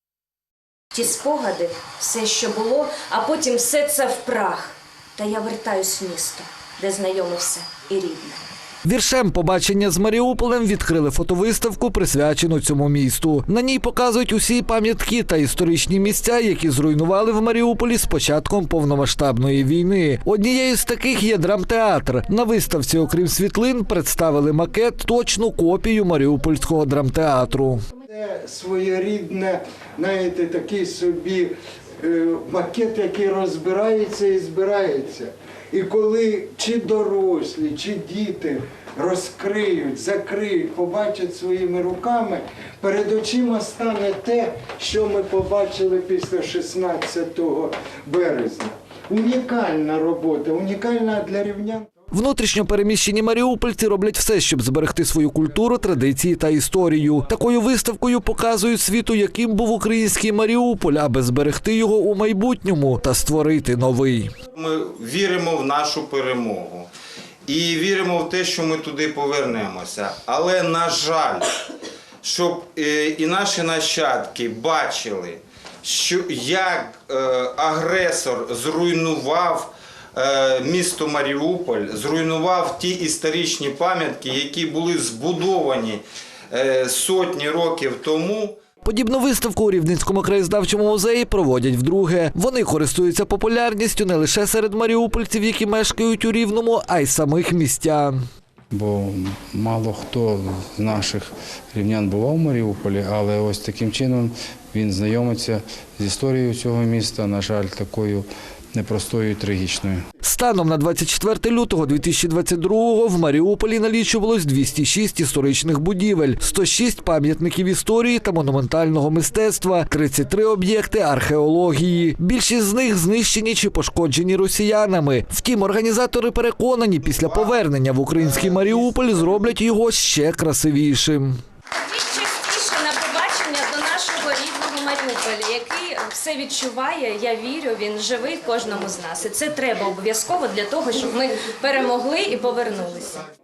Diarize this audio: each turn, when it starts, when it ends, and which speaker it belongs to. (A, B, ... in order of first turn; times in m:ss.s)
0:00.9-0:08.4 A
0:08.8-0:27.8 B
0:28.1-0:51.9 C
0:52.1-1:04.3 B
1:04.6-1:06.9 D
1:07.5-1:11.5 D
1:12.2-1:28.6 D
1:28.8-1:38.2 B
1:38.7-1:50.0 E
1:50.2-2:11.4 B
2:11.8-2:23.2 A